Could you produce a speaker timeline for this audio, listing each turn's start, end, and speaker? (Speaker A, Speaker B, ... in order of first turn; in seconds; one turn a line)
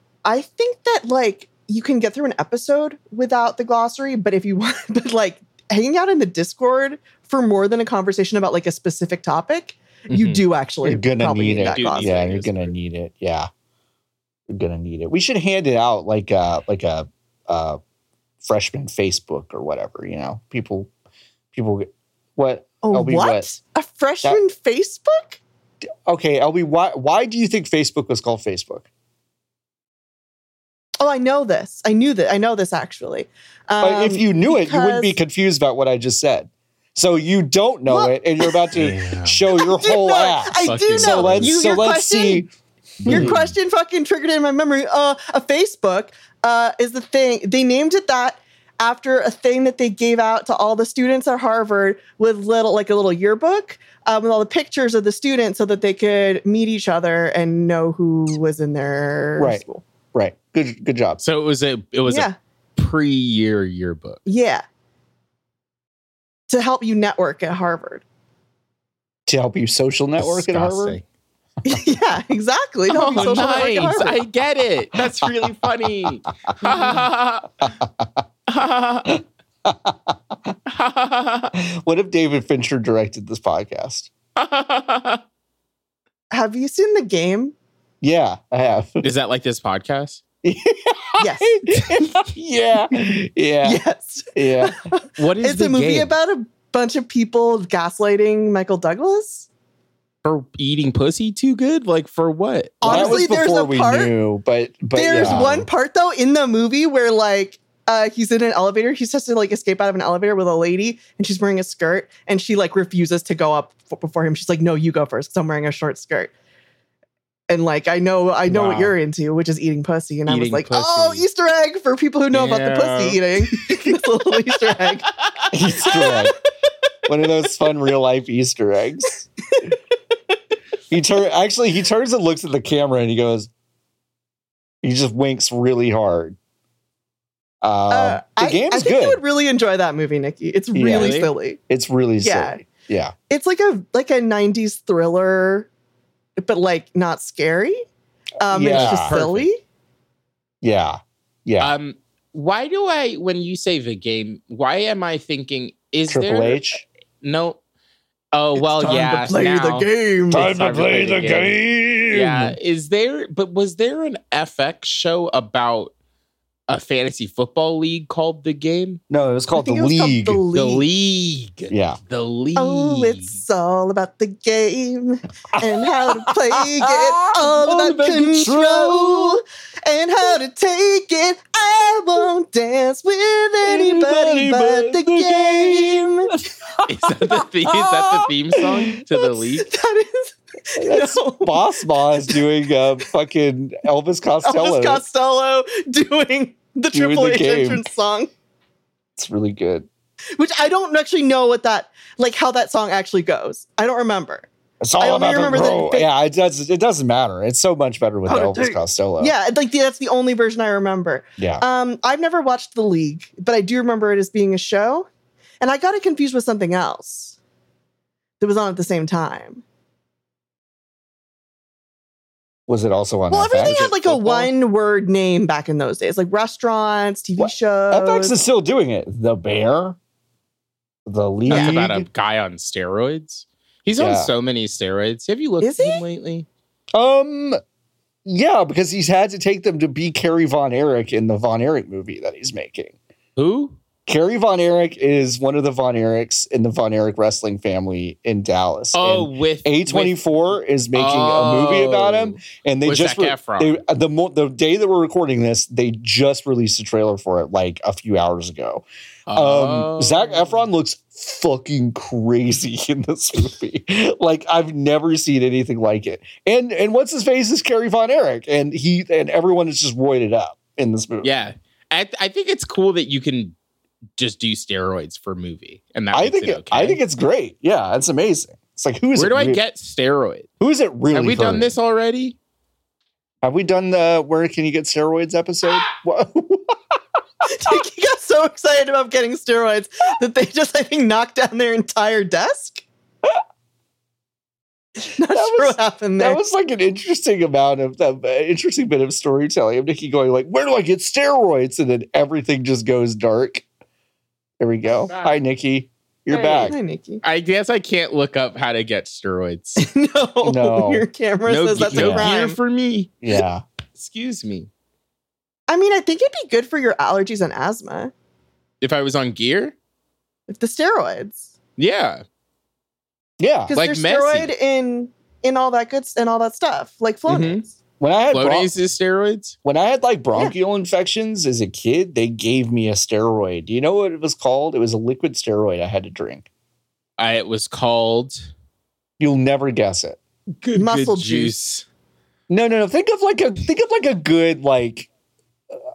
Speaker A: 0.2-12.2
Speaker B: 10.1-10.4
Speaker C: 10.8-13.5
Speaker B: 11.6-12.7
Speaker C: 14.5-17.8
Speaker C: 18.4-20.9
Speaker C: 21.5-23.4
Speaker A: 22.8-25.4
Speaker C: 26.1-28.9
Speaker A: 31.0-35.2
Speaker C: 33.8-42.5
Speaker A: 37.9-38.6
Speaker B: 38.7-39.5
Speaker A: 39.5-42.5
Speaker B: 40.6-41.5
Speaker B: 43.0-43.4
Speaker C: 43.0-43.4
Speaker A: 43.0-59.8
Speaker C: 59.4-61.2
Speaker B: 61.2-64.2
Speaker A: 62.1-62.3
Speaker A: 64.2-64.6
Speaker A: 66.5-68.0
Speaker C: 69.3-71.0
Speaker B: 70.2-71.0
Speaker A: 71.6-74.2
Speaker B: 72.9-77.5
Speaker C: 73.2-73.7
Speaker C: 77.7-78.1
Speaker B: 78.5-79.1
Speaker C: 79.6-80.5
Speaker B: 80.7-81.5
Speaker C: 81.5-84.1
Speaker B: 84.3-85.2
Speaker A: 86.3-87.5
Speaker C: 88.0-89.1
Speaker B: 89.0-90.2
Speaker C: 90.4-93.8
Speaker A: 91.2-92.2
Speaker A: 93.6-99.5
Speaker C: 94.3-94.8
Speaker B: 95.2-96.1
Speaker B: 100.2-103.2
Speaker A: 102.8-104.1
Speaker C: 102.8-105.7
Speaker A: 104.9-116.3
Speaker A: 117.5-125.1
Speaker C: 118.5-118.9
Speaker B: 120.3-121.2
Speaker B: 122.3-123.8
Speaker C: 125.5-126.3
Speaker A: 125.8-126.3
Speaker C: 127.1-129.3
Speaker C: 130.9-133.5
Speaker C: 134.8-136.4
Speaker C: 137.6-139.2
Speaker A: 137.9-141.6
Speaker C: 140.7-143.1
Speaker B: 140.9-141.3
Speaker A: 142.2-142.6
Speaker A: 143.3-145.7
Speaker A: 146.4-147.8
Speaker A: 148.4-149.6
Speaker C: 148.5-149.2
Speaker B: 148.5-149.5
Speaker C: 150.6-151.8
Speaker B: 151.6-157.6
Speaker C: 156.1-156.8
Speaker B: 158.3-161.6
Speaker A: 158.6-160.5
Speaker C: 160.3-162.6
Speaker B: 162.1-165.9
Speaker B: 166.7-169.0
Speaker C: 169.1-170.4
Speaker A: 169.5-170.8
Speaker B: 170.5-173.4
Speaker C: 171.7-172.0
Speaker A: 172.6-186.3
Speaker C: 175.6-179.4
Speaker C: 183.6-188.9
Speaker B: 186.8-189.7
Speaker A: 189.4-192.4
Speaker C: 190.8-195.0
Speaker A: 194.4-198.3
Speaker C: 196.9-197.8
Speaker C: 199.2-199.9
Speaker A: 200.4-206.1
Speaker C: 204.8-209.3
Speaker A: 208.2-215.1
Speaker A: 215.6-217.4
Speaker A: 218.4-219.6
Speaker C: 222.7-224.5
Speaker A: 223.3-228.3
Speaker C: 227.4-230.0
Speaker C: 231.1-232.1
Speaker A: 231.5-231.8
Speaker B: 231.5-236.5
Speaker C: 234.0-234.3
Speaker A: 235.6-236.0
Speaker C: 236.9-237.6
Speaker C: 238.2-242.9
Speaker B: 243.3-243.8
Speaker C: 244.1-271.3
Speaker B: 248.9-253.8
Speaker B: 259.3-260.6
Speaker B: 271.2-273.5
Speaker B: 274.2-277.0
Speaker C: 276.1-279.6
Speaker B: 279.1-280.5
Speaker C: 280.6-281.7
Speaker B: 281.1-282.4
Speaker C: 283.4-286.8
Speaker A: 287.4-292.8
Speaker A: 295.1-296.4
Speaker C: 295.3-303.6
Speaker C: 304.6-306.7
Speaker B: 305.1-305.4
Speaker A: 306.3-307.2
Speaker B: 306.3-309.9
Speaker A: 309.8-312.6
Speaker C: 310.4-311.0
Speaker B: 311.4-313.1
Speaker C: 311.7-312.3
Speaker C: 313.2-313.6
Speaker B: 313.9-314.7
Speaker A: 315.7-318.1
Speaker B: 318.8-319.7
Speaker A: 320.5-321.5
Speaker B: 321.8-322.2
Speaker C: 323.4-323.7
Speaker A: 323.7-327.6
Speaker B: 323.7-324.5
Speaker B: 327.3-327.6
Speaker C: 328.0-328.7
Speaker B: 328.3-329.6
Speaker C: 329.6-336.4
Speaker B: 337.2-338.5
Speaker C: 339.2-340.2
Speaker B: 340.6-341.9
Speaker A: 340.7-341.5
Speaker C: 342.5-345.1